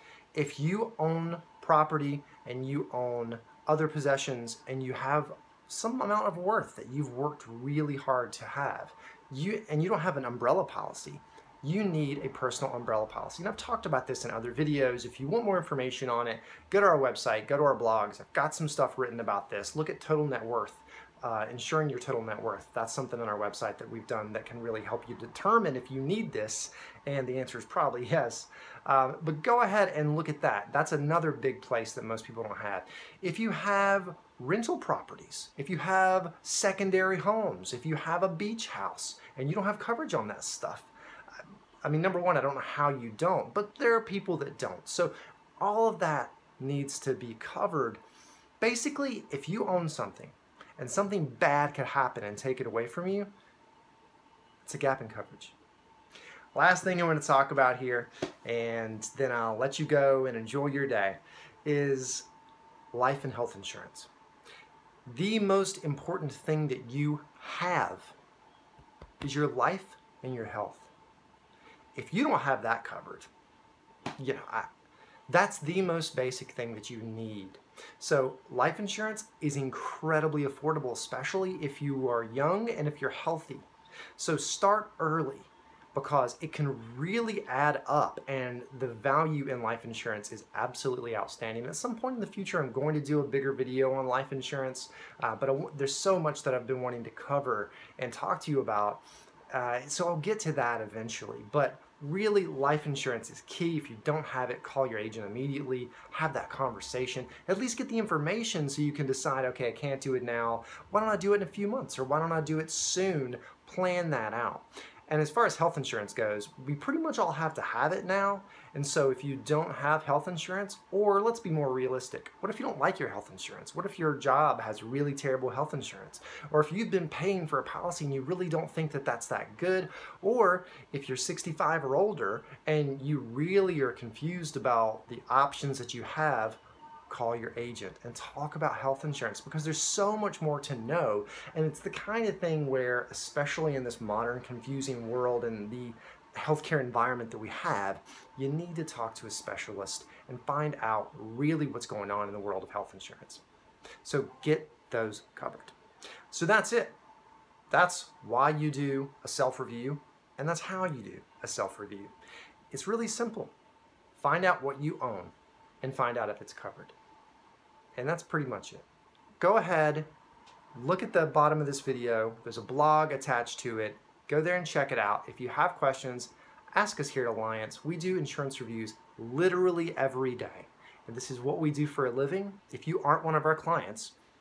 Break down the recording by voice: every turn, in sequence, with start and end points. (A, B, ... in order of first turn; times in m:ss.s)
0:00.3-0:40.9 A
0:41.8-0:48.0 A
0:48.6-0:53.3 A
0:54.6-0:55.5 A
0:56.5-1:02.3 A
1:02.9-1:04.1 A
1:05.1-1:08.2 A
1:09.2-1:10.9 A
1:11.9-1:13.3 A
1:14.2-1:14.7 A
1:15.3-2:33.4 A
2:34.0-2:35.7 A
2:36.3-2:37.0 A
2:37.7-2:42.1 A
2:42.7-2:43.5 A
2:44.2-2:46.9 A
2:48.0-2:48.8 A
2:49.4-2:50.1 A
2:50.7-3:04.1 A